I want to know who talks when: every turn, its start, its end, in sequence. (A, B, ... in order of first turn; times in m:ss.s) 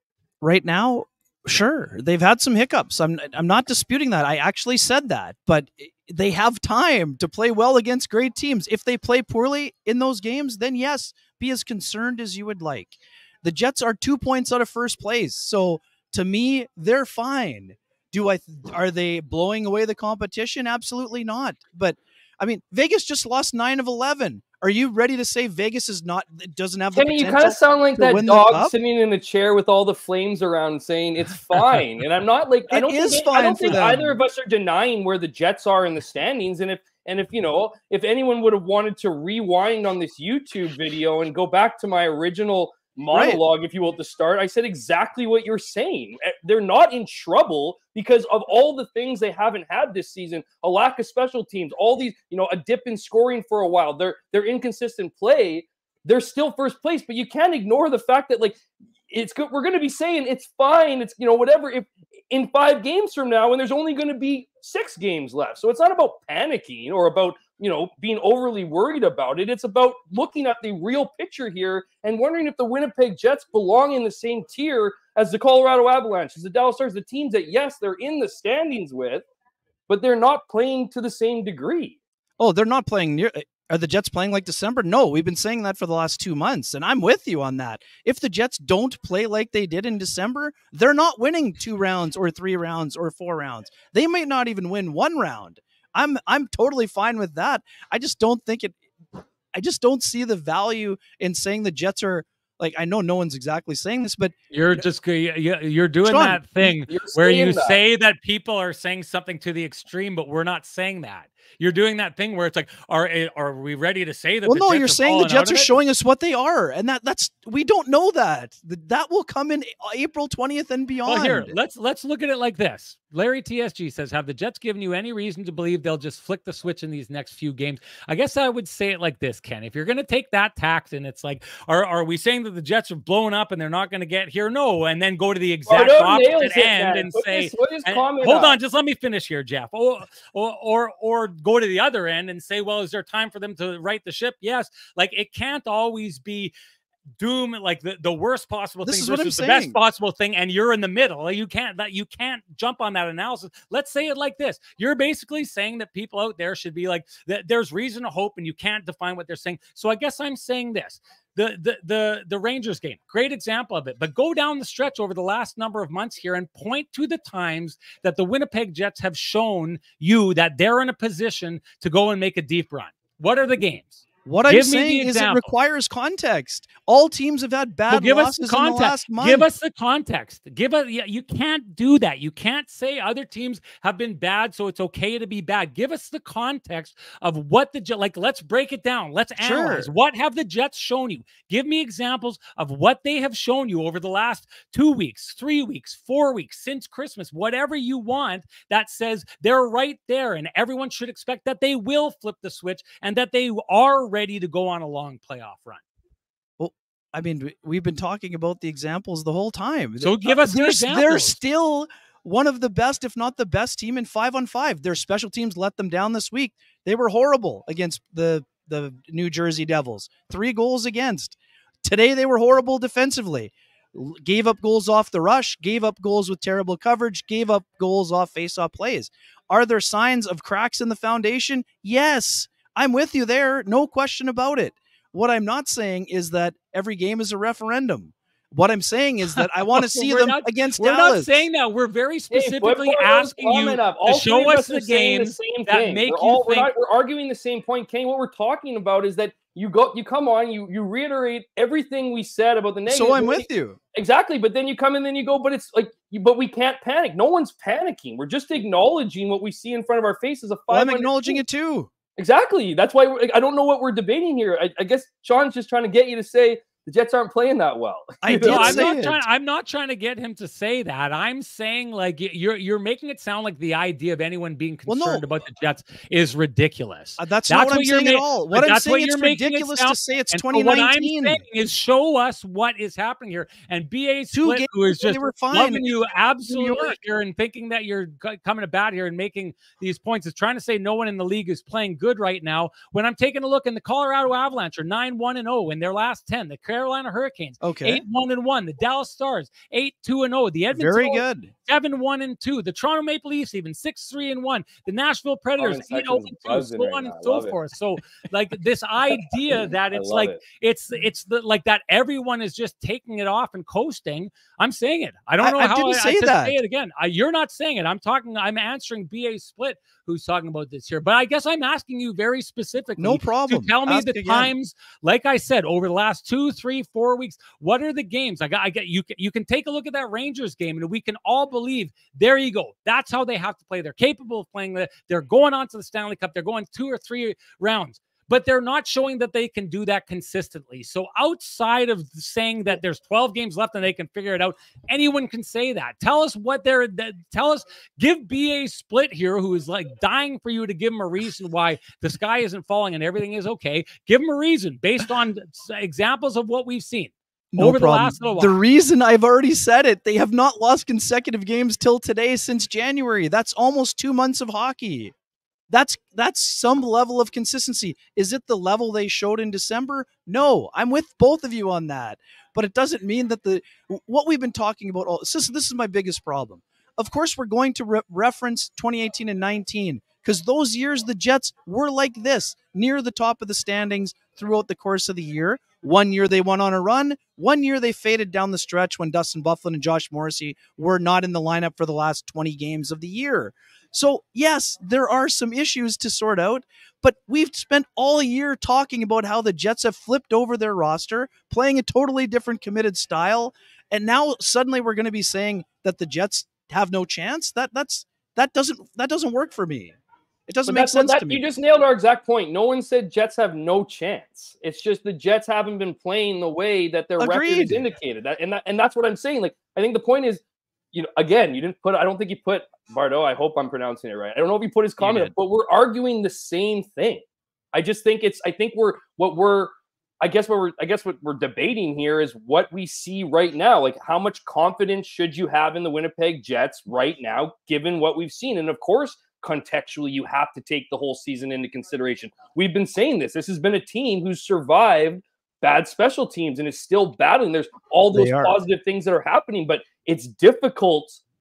0:00.4-0:28.7 A
0:26.9-1:19.2 B
0:32.7-0:34.2 A
0:43.1-0:43.4 A
1:19.9-1:22.0 B
1:22.4-1:38.8 A
1:39.5-1:44.3 A
1:44.5-1:55.7 C
1:46.0-1:46.7 A
1:46.9-1:47.8 B
1:54.4-2:01.6 A
2:01.1-2:26.5 C
2:15.7-2:18.6 B
2:27.2-2:55.5 C
2:28.8-2:29.8 A
2:54.2-2:59.5 A
2:57.9-3:25.8 C
3:09.4-3:09.9 A
3:26.6-4:01.4 A
3:30.0-3:31.4 C
3:59.3-4:06.7 C
4:02.3-4:21.4 B
4:12.9-4:13.8 A
4:20.7-4:21.9 A
4:22.2-4:29.0 B
4:28.2-4:29.2 A
4:28.4-5:58.6 C
4:34.9-4:35.2 A
4:37.2-4:41.4 A
4:44.4-4:45.8 A
4:46.5-4:47.0 A
4:57.6-4:58.0 A
5:00.7-5:01.5 A
5:05.6-5:07.6 B
5:09.9-5:10.4 B
5:15.4-5:16.6 A
5:23.0-5:24.5 A
5:57.5-6:05.1 A
6:05.7-6:51.4 A
6:50.7-7:00.4 B
6:57.2-6:57.8 A
7:00.9-7:31.2 B
7:05.0-7:05.3 A
7:28.1-7:28.6 A